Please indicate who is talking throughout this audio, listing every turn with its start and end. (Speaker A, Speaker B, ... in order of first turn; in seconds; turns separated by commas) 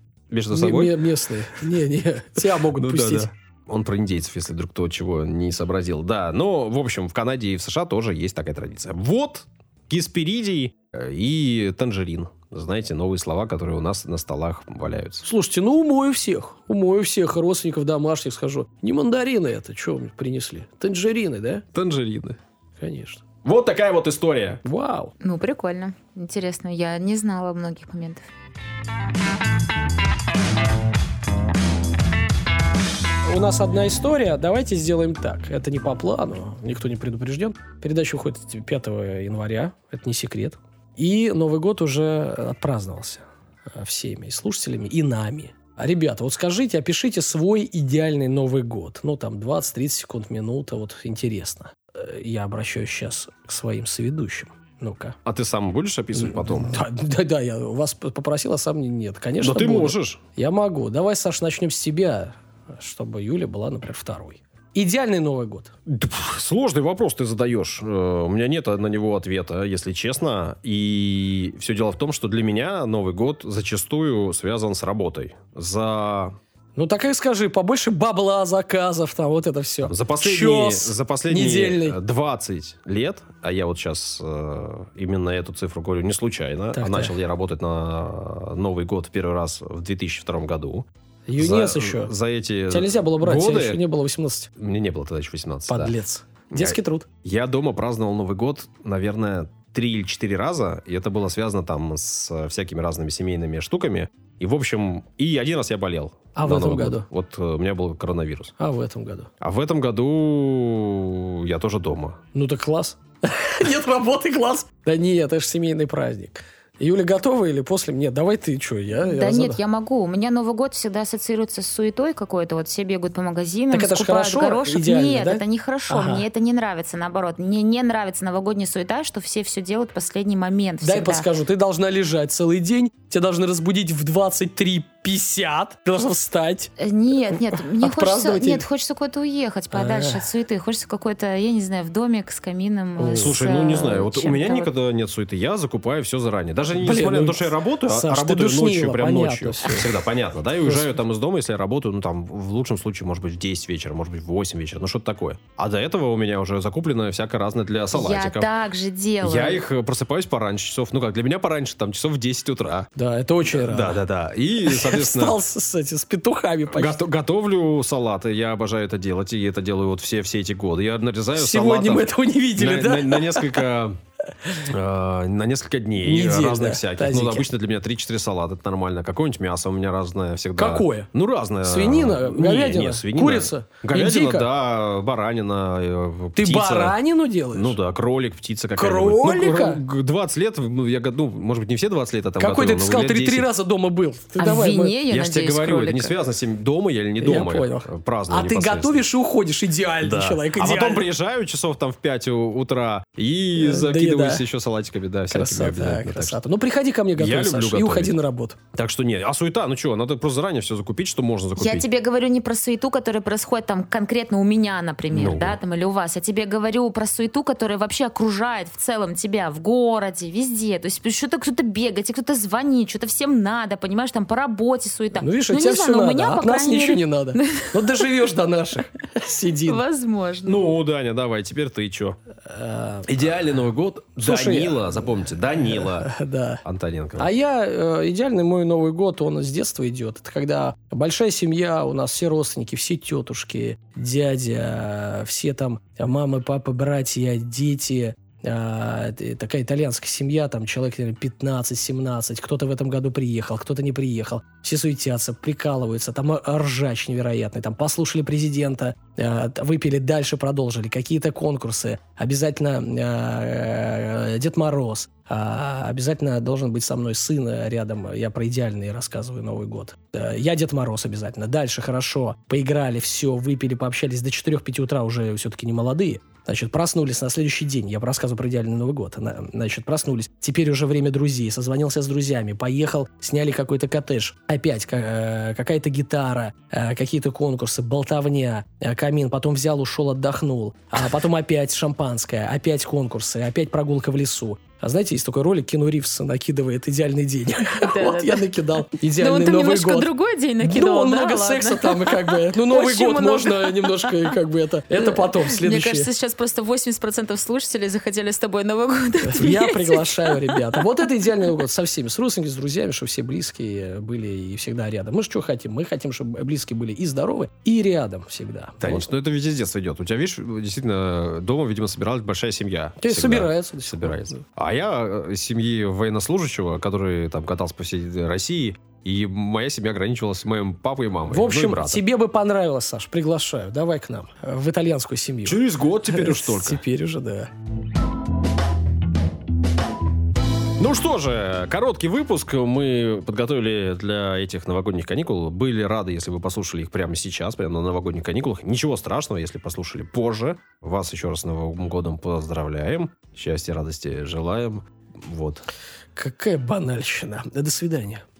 Speaker A: 0.3-1.0, Speaker B: 0.5-3.3, Speaker A: 2.7-15.2, Speaker B: 15.2-21.6, Speaker A: 21.7-22.4, Speaker B: 22.8-23.2, Speaker A: 23.4-24.6, Speaker B: 24.6-25.1, Speaker C: 25.2-28.3, Speaker B: 33.2-55.2, Speaker A: 55.2-56.8, Speaker B: 56.1-65.7, Speaker A: 59.4-60.2, Speaker A: 65.9-76.3, Speaker B: 76.7-82.0, Speaker A: 79.8-93.8, Speaker B: 86.7-87.1, Speaker B: 91.2-92.1, Speaker B: 92.7-94.5, Speaker A: 94.6-96.0, Speaker B: 95.7-97.1, Speaker A: 96.5-108.5, Speaker B: 106.3-107.1, Speaker B: 108.6-109.3, Speaker A: 109.4-112.2, Speaker B: 112.3-119.6, Speaker C: 119.0-131.3, Speaker B: 123.7-126.2, Speaker B: 130.8-136.7, Speaker C: 136.8-144.7, Speaker B: 137.3-138.7, Speaker B: 139.7-140.3, Speaker B: 143.0-143.4, Speaker A: 143.1-158.5, Speaker B: 146.7-149.9, Speaker B: 150.6-150.9, Speaker C: 157.9-159.6, Speaker A: 159.2-162.9, Speaker B: 162.9-164.0, Speaker A: 163.4-165.4, Speaker B: 164.6-167.1, Speaker A: 166.7-174.0, Speaker B: 171.3-173.7, Speaker A: 174.6-187.0, Speaker B: 176.0-177.5, Speaker B: 180.6-181.1, Speaker B: 181.6-184.5, Speaker B: 186.3-187.8, Speaker A: 187.5-193.5, Speaker B: 188.8-189.8, Speaker B: 192.4-194.9, Speaker C: 194.4-196.1, Speaker A: 195.1-199.1, Speaker B: 197.2-201.1, Speaker A: 200.0-206.4, Speaker B: 203.5-204.5, Speaker B: 205.3-208.6, Speaker A: 207.1-208.1, Speaker A: 208.7-211.8, Speaker C: 211.6-228.1, Speaker A: 215.1-215.6, Speaker B: 225.2-229.8, Speaker C: 229.6-230.7, Speaker A: 230.4-232.2, Speaker B: 232.4-233.2, Speaker A: 233.1-236.1, Speaker B: 234.2-236.6, Speaker A: 236.6-237.3, Speaker B: 237.2-306.1, Speaker C: 297.8-298.4, Speaker C: 299.0-304.4, Speaker C: 304.9-310.6, Speaker B: 309.2-319.1, Speaker A: 318.8-332.0, Speaker B: 323.0-324.4, Speaker B: 331.3-337.5, Speaker A: 335.4-336.8, Speaker A: 340.8-355.6, Speaker B: 356.1-358.2